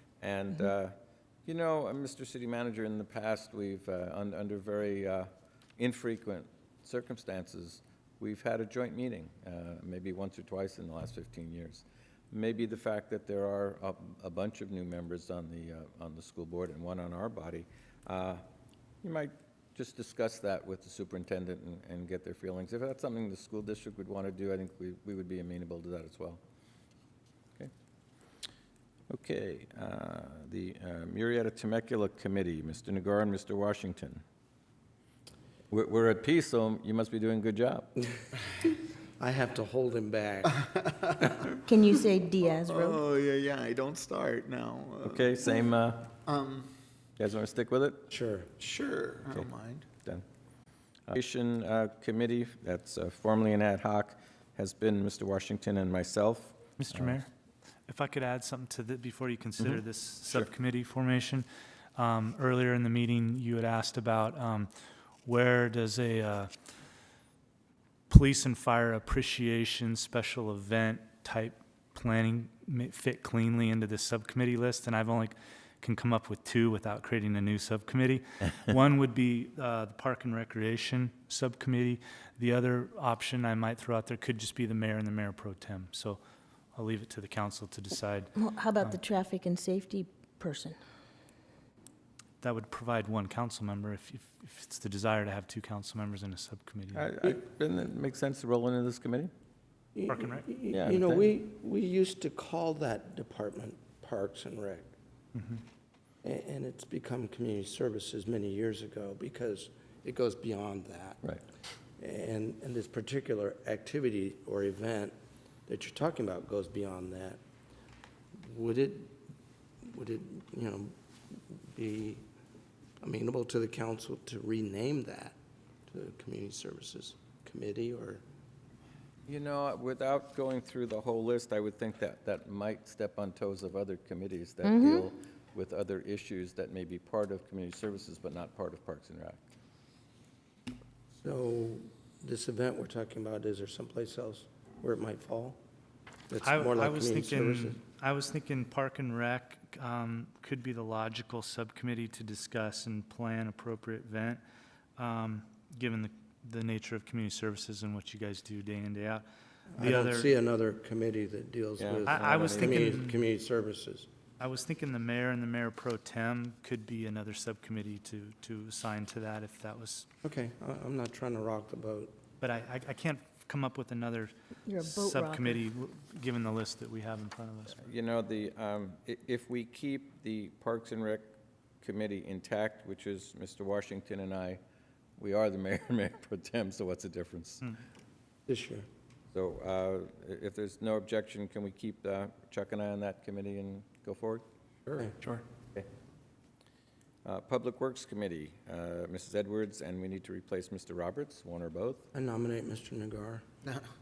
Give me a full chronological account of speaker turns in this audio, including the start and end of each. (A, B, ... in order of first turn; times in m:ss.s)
0:00.2-0:00.9 A
0:01.5-0:18.4 A
0:19.0-0:26.4 A
0:29.1-0:34.2 A
0:35.7-0:37.9 A
0:39.2-0:40.6 B
0:40.6-0:41.6 C
0:41.6-0:43.0 D
0:42.4-0:45.6 C
0:45.0-0:46.1 A
0:46.3-0:46.7 C
0:47.2-0:48.1 A
0:48.1-0:48.5 B
0:48.6-0:49.9 C
0:51.1-0:57.2 A
0:56.8-0:57.3 E
0:57.9-1:04.7 E
0:59.6-1:00.5 A
1:05.3-1:06.5 E
1:08.1-1:26.2 E
1:26.8-1:28.3 E
1:28.4-1:30.8 D
1:32.4-1:37.1 E
1:36.9-1:39.3 A
1:40.0-1:44.9 B
1:40.1-1:40.4 E
1:40.7-1:41.3 A
1:46.2-1:51.2 B
1:52.0-1:55.1 B
1:55.7-1:57.4 B
1:58.4-1:59.2 B
1:59.8-2:00.9 B
2:01.5-2:02.2 B
2:03.0-2:05.4 B
2:05.9-2:08.2 B
2:09.3-2:19.4 A
2:14.6-2:15.1 D
2:21.2-2:25.6 B
2:26.3-2:27.8 B
2:26.4-2:34.4 E
2:35.0-2:39.2 E
2:39.8-2:44.1 B
2:39.8-2:40.3 E
2:41.8-2:42.8 A
2:42.1-2:43.2 E
2:44.4-2:50.1 E
2:50.2-2:52.1 B
2:52.4-2:57.9 E
2:54.7-2:55.6 D
2:57.8-3:04.6 A
3:05.2-3:07.7 A
3:08.5-3:08.9 B
3:09.3-3:14.4 A
3:17.2-3:22.0 A
3:22.1-3:23.4 B